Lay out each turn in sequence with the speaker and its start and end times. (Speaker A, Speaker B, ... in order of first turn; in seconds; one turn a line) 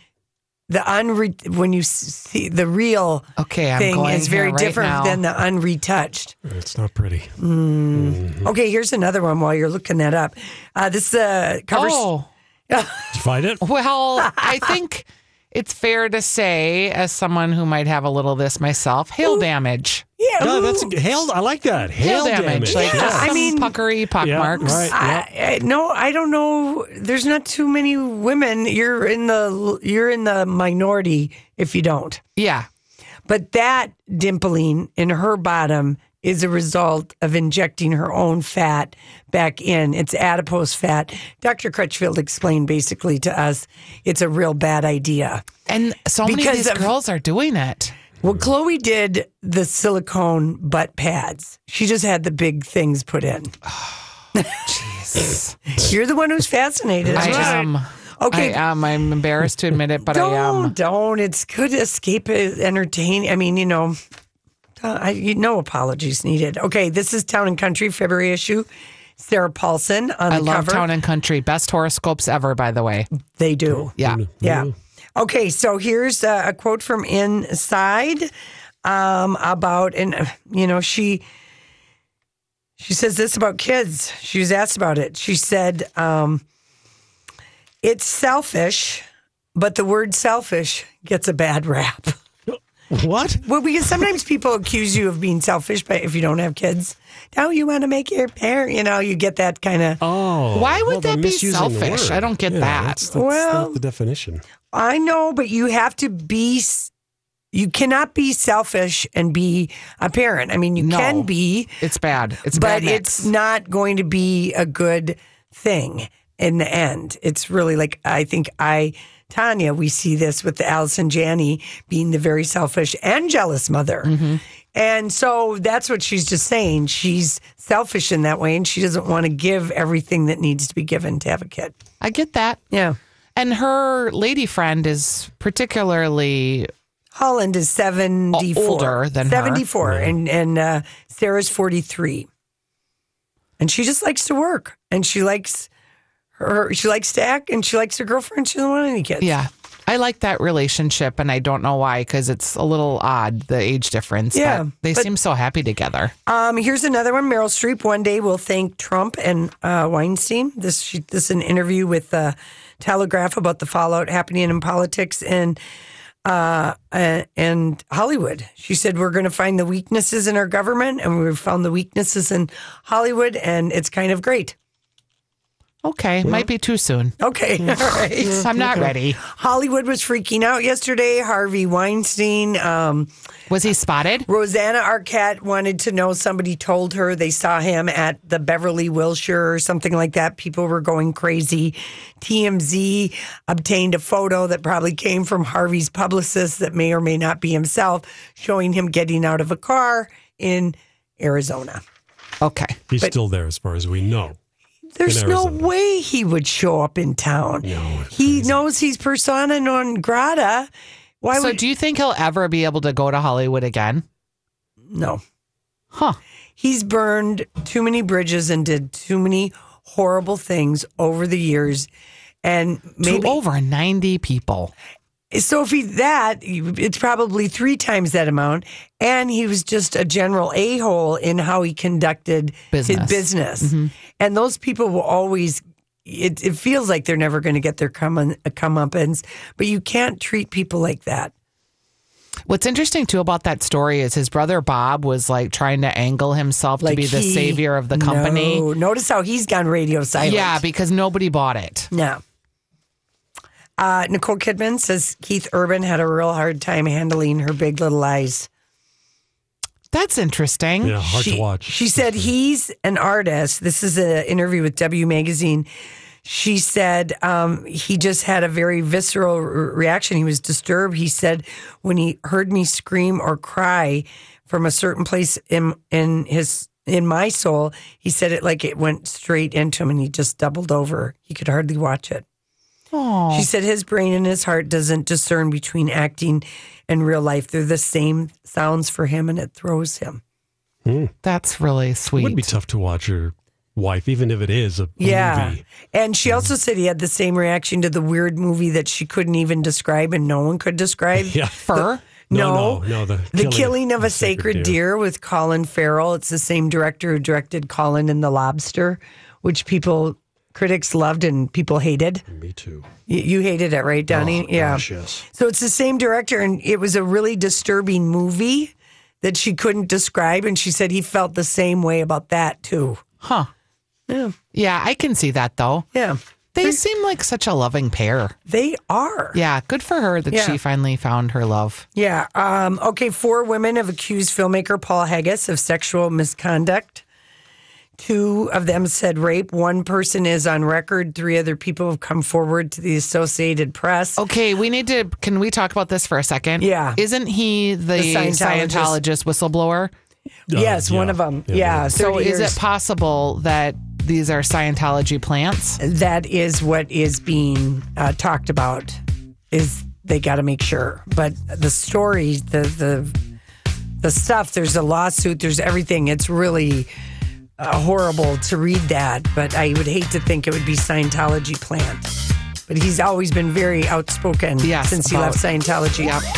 Speaker A: 0.7-3.3
Speaker B: 3.4-5.2
Speaker A: 3.8-6.3
Speaker C: 6.5-7.4
Speaker A: 7.4-12.1
Speaker C: 7.9-8.5
Speaker B: 11.7-12.3
Speaker A: 12.7-13.1
Speaker C: 13.1-13.6
Speaker B: 13.6-20.0
Speaker A: 20.2-20.9
Speaker C: 20.4-23.6
Speaker B: 22.0-24.9
Speaker A: 22.6-23.8
Speaker C: 24.2-25.3
Speaker A: 24.6-32.2
Speaker B: 32.4-32.7
Speaker A: 33.3-45.4
Speaker B: 45.7-47.9
Speaker A: 46.2-46.9
Speaker A: 48.2-53.5
Speaker B: 53.7-54.0
Speaker B: 54.5-55.6
Speaker A: 55.8-58.6
Speaker C: 57.0-57.7
Speaker B: 57.1-60.7
Speaker A: 60.0-64.0
Speaker A: 64.8-68.7
Speaker A: 69.2-70.9
Speaker B: 70.3-73.1
Speaker A: 73.4-78.3
Speaker C: 73.7-74.7
Speaker B: 74.0-74.2
Speaker A: 78.8-81.2
Speaker A: 82.8-86.4
Speaker A: 87.8-89.0
Speaker A: 89.5-92.2
Speaker C: 92.5-93.5
Speaker A: 93.4-100.0
Speaker C: 100.0-104.4
Speaker B: 100.5-103.0
Speaker A: 103.1-103.8
Speaker A: 104.7-106.9
Speaker A: 107.5-111.8
Speaker B: 110.8-113.3
Speaker A: 112.5-124.1
Speaker B: 124.0-124.4
Speaker A: 124.7-131.8
Speaker B: 132.0-132.6
Speaker A: 132.7-133.0
Speaker B: 133.4-136.7
Speaker A: 137.2-142.3
Speaker B: 138.3-139.7
Speaker C: 139.8-140.2
Speaker A: 143.6-145.7
Speaker A: 146.4-149.3
Speaker B: 149.2-156.1
Speaker A: 154.3-155.1
Speaker A: 156.3-165.6
Speaker A: 166.2-174.6
Speaker B: 175.8-177.2
Speaker C: 176.2-176.5
Speaker A: 177.2-183.1
Speaker C: 177.6-178.9
Speaker B: 178.4-179.2
Speaker B: 183.5-184.3
Speaker A: 184.3-201.8
Speaker B: 202.4-202.8
Speaker C: 202.9-204.4
Speaker A: 204.9-210.7
Speaker C: 205.1-205.7
Speaker C: 207.6-208.6
Speaker A: 211.2-211.6
Speaker B: 211.3-214.1
Speaker A: 214.9-215.2
Speaker B: 215.9-216.2
Speaker A: 216.6-221.9
Speaker A: 222.4-223.4
Speaker B: 223.0-224.7
Speaker A: 225.3-241.3
Speaker B: 232.7-233.9
Speaker B: 242.5-248.7
Speaker A: 246.8-250.6
Speaker B: 250.2-251.9
Speaker A: 251.9-252.2
Speaker A: 253.8-258.5
Speaker B: 259.9-261.0
Speaker C: 260.8-262.3
Speaker A: 261.0-265.7
Speaker A: 266.2-282.2
Speaker B: 282.9-283.5
Speaker A: 283.3-290.2
Speaker C: 290.9-291.1
Speaker B: 291.2-292.5
Speaker C: 292.2-295.6
Speaker A: 295.0-312.2
Speaker C: 296.3-296.5
Speaker C: 301.1-301.6
Speaker B: 301.6-302.0
Speaker C: 302.3-304.8
Speaker C: 312.3-312.9
Speaker A: 313.1-323.0
Speaker C: 314.1-315.2
Speaker B: 323.2-323.5
Speaker A: 324.1-324.4
Speaker B: 324.5-325.9
Speaker A: 325.9-326.8
Speaker B: 326.6-328.4
Speaker A: 328.5-329.4
Speaker B: 329.3-331.9
Speaker A: 330.3-330.6
Speaker A: 331.9-337.0
Speaker A: 338.0-344.2
Speaker B: 344.2-349.9
Speaker A: 346.6-347.0
Speaker A: 348.0-349.0
Speaker C: 350.5-351.9
Speaker A: 350.5-352.6
Speaker B: 351.9-355.8
Speaker A: 355.8-359.0
Speaker A: 359.5-363.2
Speaker A: 364.0-366.9
Speaker A: 367.6-372.1
Speaker A: 372.7-376.2
Speaker B: 374.6-375.4
Speaker B: 376.0-376.2